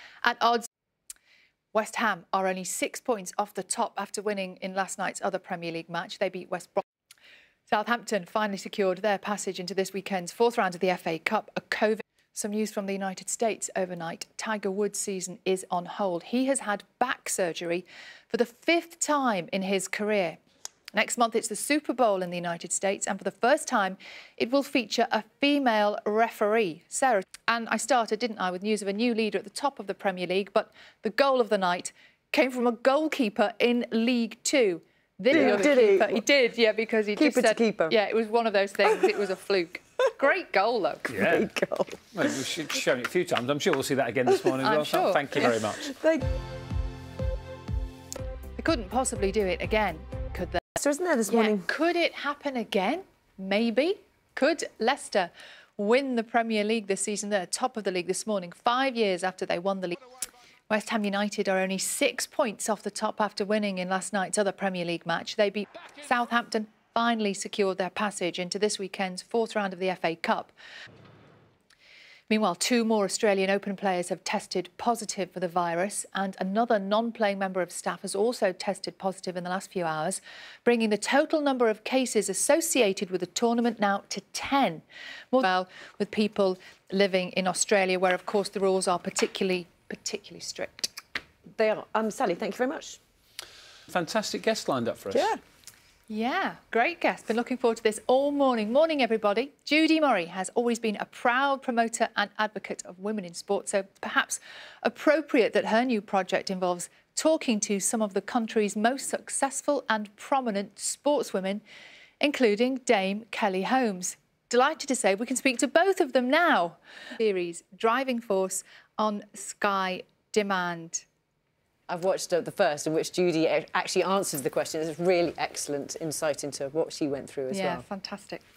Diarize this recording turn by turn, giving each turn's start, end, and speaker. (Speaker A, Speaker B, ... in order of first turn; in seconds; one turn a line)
Speaker A: 0.2-0.7
Speaker A: 1.7-6.8
Speaker A: 7.7-20.4
Speaker A: 20.9-41.1
Speaker B: 35.3-36.2
Speaker B: 37.1-38.0
Speaker B: 38.8-39.1
Speaker C: 41.1-41.5
Speaker B: 41.1-42.0
Speaker C: 42.1-46.0
Speaker A: 44.6-45.5
Speaker B: 45.4-46.2
Speaker A: 48.6-50.7
Speaker B: 50.8-51.7
Speaker A: 51.3-60.0
Speaker A: 60.7-70.5
Speaker A: 72.3-90.9
Speaker B: 91.5-93.0
Speaker C: 93.9-95.3
Speaker B: 95.1-95.4
Speaker A: 96.1-111.6
Speaker A: 112.2-121.0
Speaker B: 121.9-127.8
Speaker A: 127.5-128.4